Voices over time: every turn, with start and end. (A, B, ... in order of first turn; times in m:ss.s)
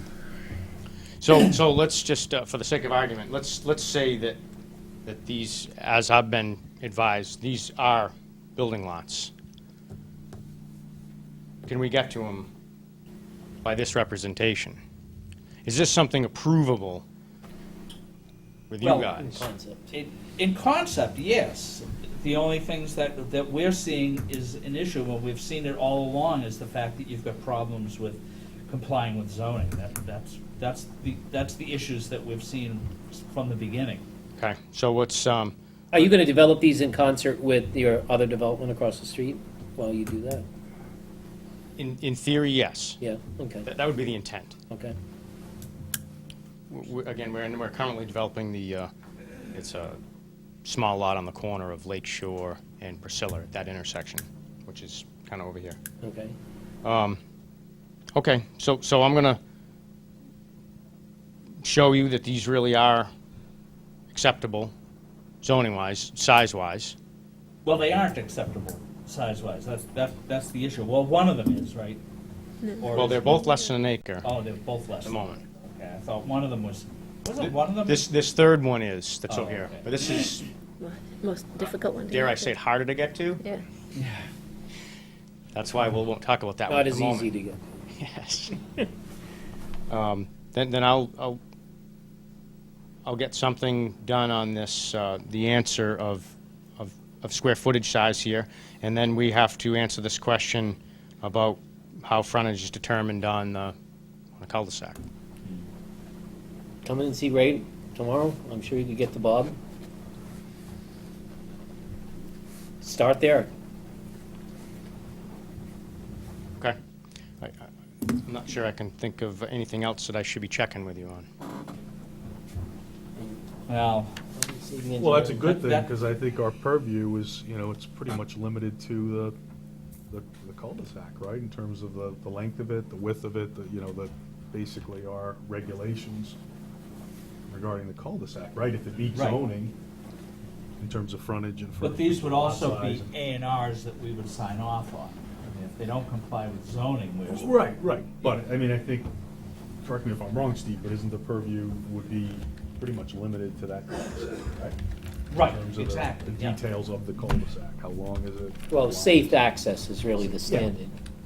0:01.2-0:04.4 A
0:05.0-0:09.3 A
0:11.7-0:12.5 A
0:13.6-0:14.8 A
0:15.6-0:17.0 A
0:18.7-0:19.5 A
0:18.8-0:19.2 B
0:19.2-0:19.9 C
0:19.9-0:34.0 B
0:34.4-0:35.5 A
0:35.9-0:40.4 C
0:41.8-0:43.0 A
0:43.0-0:43.7 C
0:43.6-0:44.6 A
0:44.7-0:44.9 C
0:46.7-0:48.9 A
0:49.5-0:50.0 A
0:50.6-0:55.8 A
0:56.0-0:56.3 C
0:56.8-0:57.2 A
0:58.1-0:59.4 A
1:01.6-1:03.1 A
1:04.1-1:04.7 A
1:05.4-1:07.0 A
1:07.6-1:12.0 B
1:12.6-1:13.5 D
1:12.8-1:13.4 B
1:12.9-1:14.2 A
1:14.2-1:18.0 B
1:15.0-1:15.4 A
1:17.4-1:20.5 A
1:19.3-1:19.9 B
1:20.8-1:22.5 D
1:22.1-1:23.4 A
1:23.9-1:24.3 B
1:25.5-1:27.3 A
1:26.7-1:27.6 C
1:28.0-1:28.6 A
1:29.9-1:31.4 A
1:33.0-1:43.7 A
1:44.4-1:45.0 A
1:46.8-1:49.6 C
1:52.8-1:53.5 C
1:57.4-1:57.7 A
1:58.2-2:01.3 A
2:03.7-2:04.1 B
2:04.3-2:05.5 C
2:05.0-2:09.4 E
2:05.4-2:05.9 B
2:10.1-2:16.4 E
2:17.5-2:19.7 E
2:19.1-2:19.4 B
2:20.8-2:23.1 E
2:21.8-2:27.7 B
2:27.3-2:29.1 E
2:29.8-2:34.8 E
2:35.3-2:36.6 B
2:35.4-2:39.4 E
2:38.7-2:40.9 C